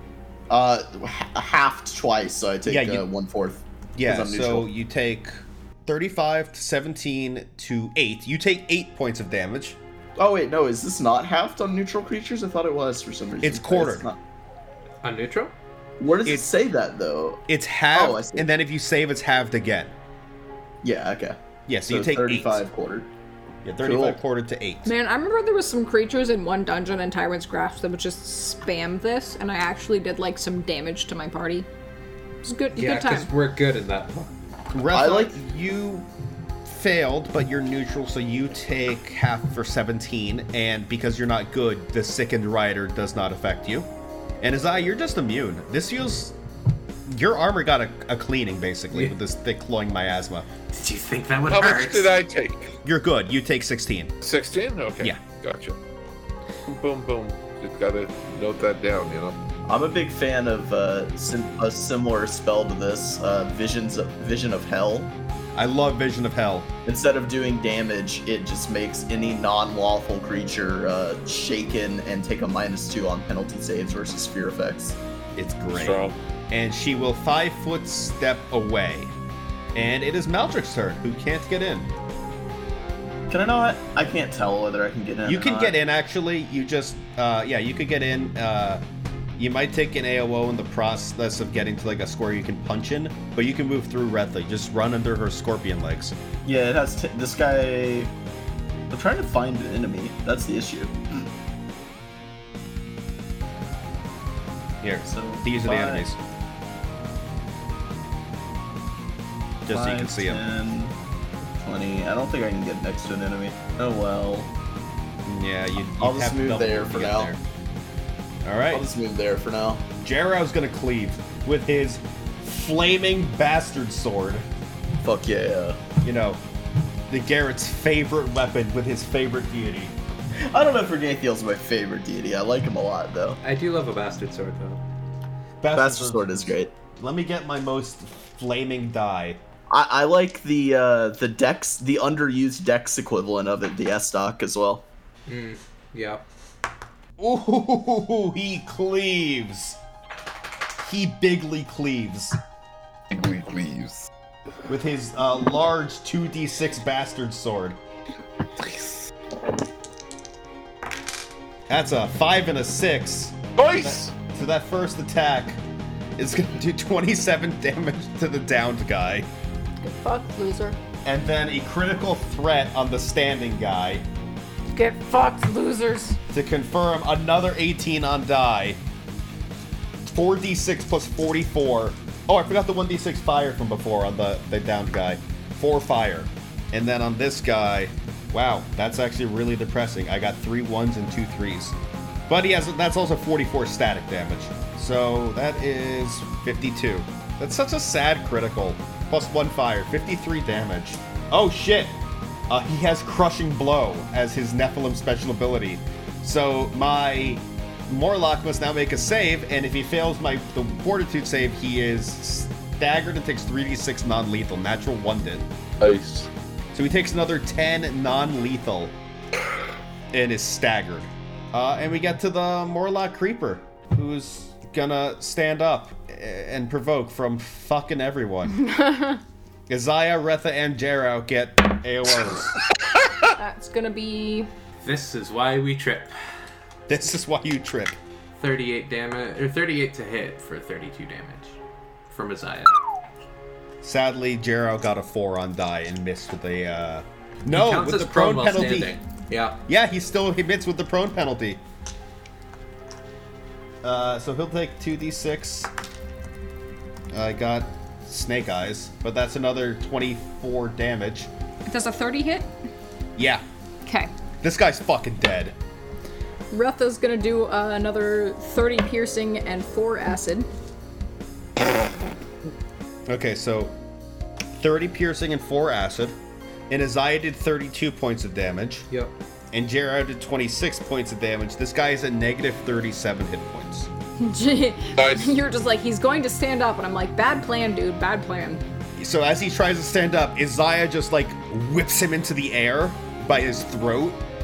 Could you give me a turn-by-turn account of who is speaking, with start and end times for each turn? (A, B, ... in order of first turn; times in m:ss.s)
0:00.5-0:04.7 A
0:02.6-0:03.1 B
0:04.0-0:09.8 B
0:10.2-0:14.2 A
0:13.4-0:14.1 B
0:15.0-0:15.5 C
0:16.0-0:17.4 A
0:17.5-0:19.9 B
0:17.9-0:18.5 A
0:20.8-0:23.1 A
0:21.7-0:22.6 B
0:23.6-0:24.9 B
0:23.8-0:24.2 A
0:24.8-0:31.7 D
0:32.4-0:33.3 D
0:32.8-0:34.3 C
0:34.7-0:36.1 B
0:34.9-0:35.4 A
0:36.6-0:43.9 B
0:44.4-0:46.4 B
0:47.1-0:50.5 B
0:50.7-0:52.1 C
0:51.5-0:52.8 E
0:52.8-0:54.2 B
0:54.2-0:55.8 E
0:56.7-0:59.4 E
0:59.7-1:05.1 A
1:05.6-1:06.7 B
1:06.9-1:15.0 A
1:15.4-1:19.1 B
1:15.7-1:16.2 E
1:19.8-1:21.9 B
1:23.3-1:25.8 A
1:25.2-1:28.8 B
1:29.4-1:36.2 B
1:36.4-1:38.1 A
1:38.9-1:41.3 A
1:44.8-1:46.2 B
1:45.1-1:46.0 A
1:49.6-1:50.5 B
1:49.7-1:51.0 A
1:51.6-1:54.5 A
1:55.3-1:57.4 B
1:56.0-1:57.3 A
1:58.4-1:58.8 B
1:58.7-1:59.9 A
2:00.0-2:04.5 B
2:05.0-2:05.8 A
2:06.0-2:06.4 B
2:07.1-2:10.0 B
2:10.4-2:13.4 A
2:13.4-2:14.8 C
2:15.6-2:16.4 B
2:15.7-2:16.7 A
2:17.0-2:19.4 B
2:19.7-2:24.8 A
2:25.3-2:26.2 C
2:27.2-2:29.8 B
2:30.8-2:32.4 B
2:33.1-2:34.1 E
2:34.7-2:37.8 B
2:38.6-2:39.1 E
2:41.7-2:45.6 B
2:43.6-2:44.1 E
2:46.2-2:49.3 B
2:49.8-2:50.8 D
2:51.0-2:54.0 B
2:54.7-2:56.2 D
2:56.3-2:58.8 B
3:00.1-3:11.8 B
3:12.3-3:22.0 B
3:22.5-3:35.4 B
3:35.8-3:36.3 E
3:36.7-3:39.0 B
3:40.1-3:48.6 B
3:48.6-3:49.2 D
3:49.7-3:52.6 B
3:53.4-3:54.5 D
3:54.8-3:56.1 C
3:56.9-3:58.0 B
3:58.4-4:01.6 C
4:02.1-4:02.8 C
4:03.8-4:09.0 B
4:07.5-4:09.6 C
4:09.7-4:11.6 B
4:13.8-4:15.7 B
4:17.1-4:21.3 B
4:21.7-4:22.5 D
4:23.2-4:23.4 B
4:23.8-4:24.1 D
4:24.4-4:25.6 B
4:26.5-4:30.5 D
4:33.1-4:33.7 B
4:34.6-4:36.2 B
4:36.7-4:38.9 B
4:39.5-4:43.9 B
4:44.2-4:48.6 D
4:45.0-4:45.4 E
4:49.0-4:54.2 B